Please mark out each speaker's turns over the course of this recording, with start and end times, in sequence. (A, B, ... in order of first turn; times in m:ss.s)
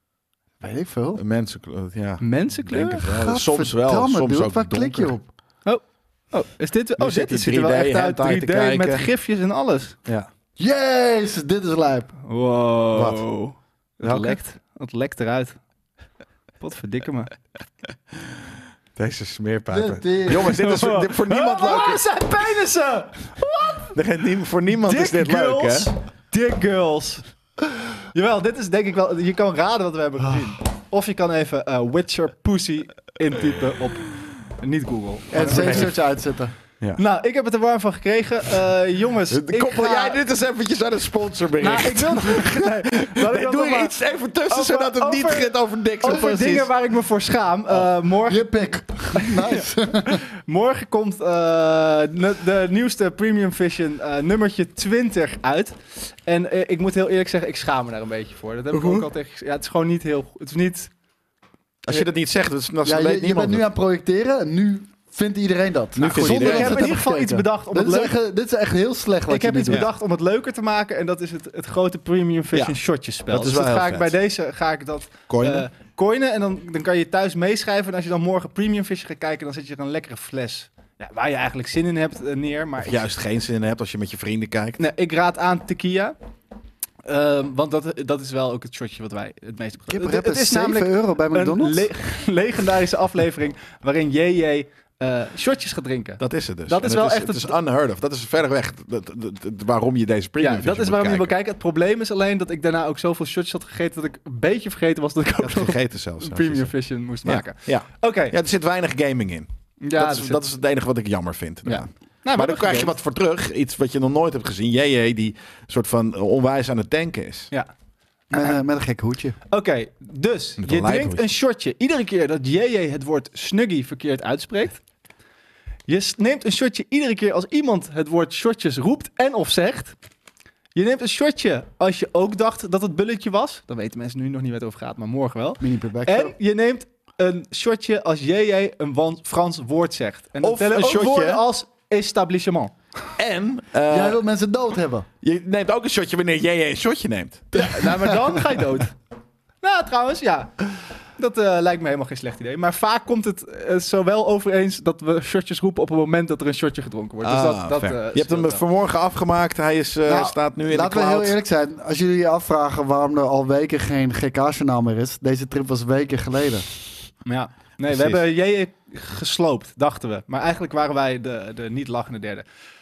0:00.6-0:01.2 A
0:01.1-0:05.2 B
0:02.2-0:03.0 C
0:03.1-0:05.3 A
0:05.6-0:10.0 C
0:07.0-0:09.1 B
0:10.6-0:12.1 A
0:12.2-0:15.6 C
0:12.9-0:13.2 B
0:14.0-0:14.4 B
0:16.6-0:17.3 C
0:19.0-0:22.0 B
0:19.7-0:20.6 A
0:20.3-0:23.9 C
0:23.9-0:25.9 B
0:24.7-0:27.2 C
0:28.1-0:36.0 C
0:35.3-0:36.5 A
0:35.4-0:35.9 B
0:37.0-0:40.2 C
0:39.3-0:46.7 B
0:41.6-0:48.5 C
0:48.2-0:50.2 A
0:49.1-1:00.9 C
0:58.7-0:59.1 B
1:01.8-1:03.7 B
1:02.8-1:09.8 A
1:06.0-1:06.9 B
1:06.0-1:08.1 C
1:09.3-1:23.0 C
1:12.5-1:14.2 B
1:15.3-1:15.7 B
1:22.8-1:24.8 B
1:24.8-1:26.2 C
1:27.0-1:37.6 C
1:29.9-1:31.9 A
1:36.2-1:41.3 B
1:40.4-1:48.4 C
1:45.4-1:57.5 B
1:49.8-1:50.4 C
1:51.6-1:52.9 C
1:58.3-1:59.4 A
1:59.5-2:04.8 C
2:00.6-2:01.2 B
2:05.9-2:10.0 C
2:10.7-2:22.7 C
2:15.6-2:16.3 A
2:20.4-2:21.4 B
2:23.2-2:24.2 B
2:23.9-2:25.1 A
2:25.2-2:28.1 B
2:27.5-2:28.9 C
2:29.6-2:38.6 C
2:37.2-2:41.4 B
2:40.0-2:46.7 A
2:47.2-2:52.4 C
2:47.8-2:48.2 B